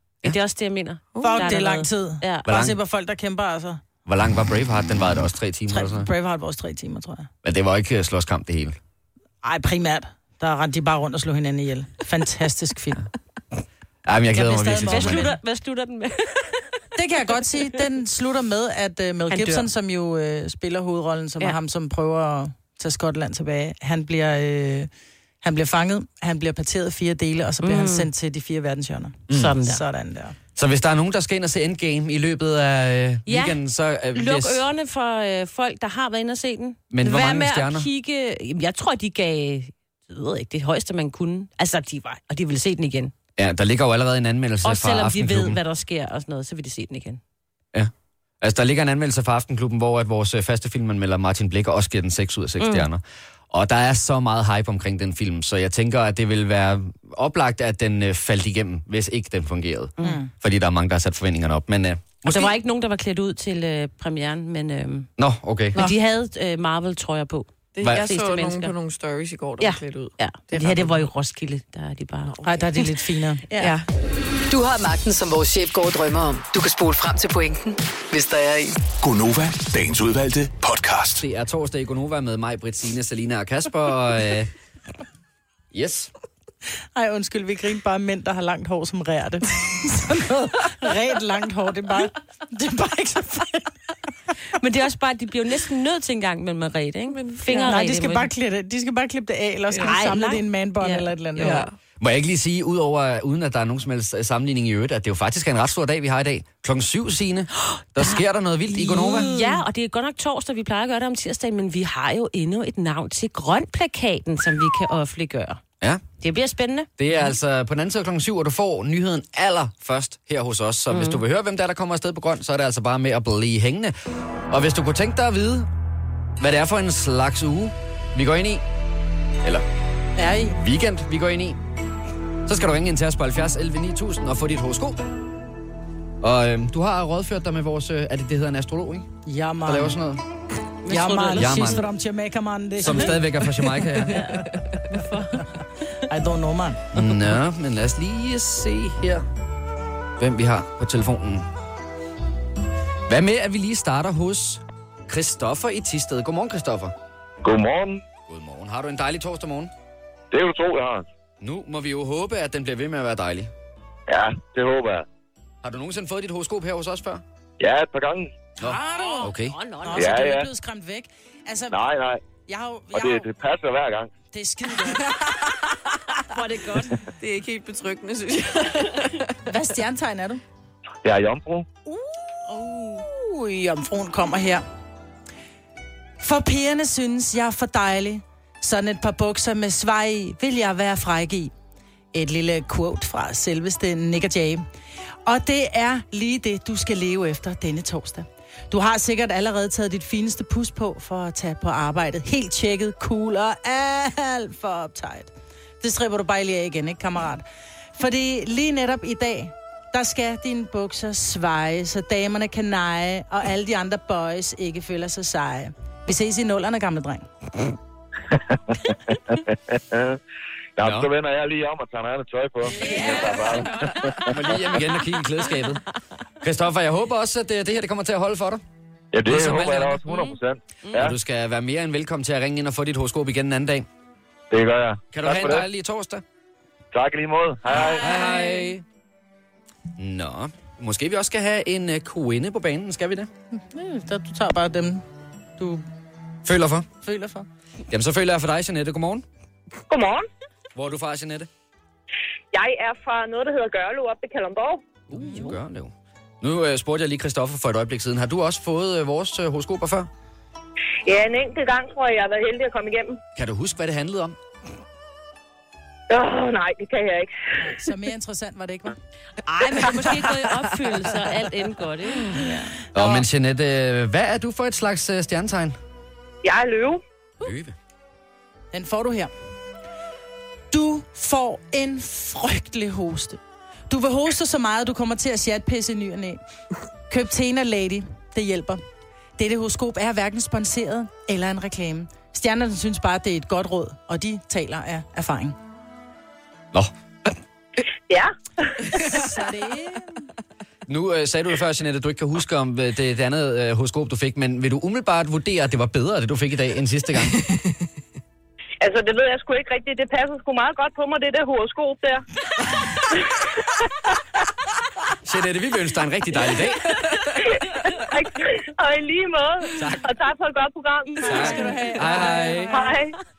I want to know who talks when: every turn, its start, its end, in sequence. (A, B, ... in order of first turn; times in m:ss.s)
0:00.2-0:02.5 A
0:01.1-0:01.5 B
0:01.2-0:03.8 C
0:02.5-0:02.8 D
0:04.1-0:06.1 D
0:05.7-0:07.3 C
0:07.4-0:08.8 D
0:09.4-0:13.0 C
0:14.1-0:15.3 D
0:14.3-0:15.4 C
0:14.8-0:16.7 A
0:17.0-0:24.9 C
0:19.3-0:19.7 A
0:25.4-0:30.4 C
0:27.6-0:28.1 A
0:29.3-0:29.6 D
0:29.3-0:29.8 A
0:30.6-0:34.6 D
0:33.2-0:33.6 A
0:34.1-0:43.1 A
0:36.9-0:37.9 D
0:43.4-0:45.6 D
0:44.6-0:47.2 A
0:47.7-1:02.5 D
0:52.6-0:52.9 A
1:00.0-1:00.3 C
1:02.2-1:05.1 A
1:05.2-1:05.8 D
1:05.7-1:08.7 A
1:07.8-1:11.1 B
1:07.8-1:08.1 D
1:09.6-1:12.4 A
1:12.3-1:12.9 B
1:12.4-1:13.7 C
1:13.6-1:13.9 B
1:14.5-1:18.8 E
1:19.0-1:21.2 F
1:21.2-1:24.5 D
1:25.7-1:26.1 D
1:26.9-1:33.7 C
1:34.5-1:38.3 A
1:37.1-1:37.8 B
1:37.5-1:41.7 C
1:39.7-1:40.0 B
1:39.8-1:41.7 A
1:41.4-1:41.7 B
1:42.0-1:49.3 D
1:47.7-1:55.6 A
1:56.2-1:56.9 A
1:57.0-2:03.9 D
2:00.9-2:01.2 A
2:04.5-2:05.7 D
2:06.4-2:08.6 D
2:10.2-2:10.6 C
2:10.6-2:11.6 D
2:12.4-2:15.0 D
2:16.2-2:19.1 D
2:19.3-2:20.0 C
2:19.6-2:20.2 D
2:20.8-2:21.8 A
2:20.9-2:23.4 C
2:21.4-2:21.8 D
2:22.8-2:24.3 D
2:24.1-2:25.5 A
2:26.1-2:26.8 C
2:26.9-2:29.2 D
2:30.2-2:31.5 D
2:33.1-2:36.9 D
2:37.4-2:38.0 G
2:38.3-2:39.7 D
2:40.3-2:41.0 G
2:41.4-2:43.5 D
2:44.1-2:45.0 G
2:45.6-2:47.2 D
2:47.6-2:48.3 G
2:48.6-2:49.6 D
2:48.6-2:49.3 C
2:48.9-2:50.2 A
2:49.8-2:51.8 C
2:49.9-2:50.5 G
2:51.7-2:52.2 G
2:52.5-2:53.3 C
2:52.9-2:54.1 G
2:54.3-2:55.1 C
2:56.2-2:57.0 A
2:57.2-2:59.4 B
2:59.4-3:00.4 C
3:01.0-3:01.6 G
3:01.9-3:04.6 C
3:06.2-3:11.5 C
3:12.1-3:14.6 C
3:15.2-3:27.4 C
3:28.0-3:37.3 C
3:38.3-3:40.2 G
3:40.8-3:44.3 G
3:40.8-3:41.1 D
3:42.8-3:44.1 A
3:44.2-3:45.8 D
3:46.4-3:48.6 D
3:49.1-3:51.1 G
3:49.2-3:50.1 D
3:50.1-3:50.4 A
3:50.9-3:53.9 D
3:54.5-3:55.6 G
3:55.1-3:56.2 D
3:56.9-3:58.1 G
3:57.8-3:58.8 D
3:57.8-3:58.5 A
4:00.0-4:03.3 D
4:03.5-4:05.0 C
4:05.6-4:05.8 C
4:06.4-4:06.9 D
4:07.0-4:07.5 C
4:07.9-4:09.2 D
4:10.8-4:11.5 D
4:12.6-4:14.7 H
4:15.1-4:20.1 D
4:23.4-4:24.4 D
4:27.6-4:28.9 C
4:29.4-4:32.5 A
4:29.7-4:30.1 C
4:32.4-4:33.3 C
4:32.9-4:35.8 D
4:36.4-4:36.9 H
4:37.4-4:37.8 D
4:38.7-4:39.3 C
4:40.7-4:46.4 C
4:47.1-4:48.8 C
4:49.4-4:55.6 C
4:56.7-4:57.3 D
4:58.9-5:00.3 C
5:00.9-5:07.4 D
5:15.2-5:16.9 D
5:21.2-5:22.8 D
5:21.2-5:22.9 C
5:21.4-5:21.8 A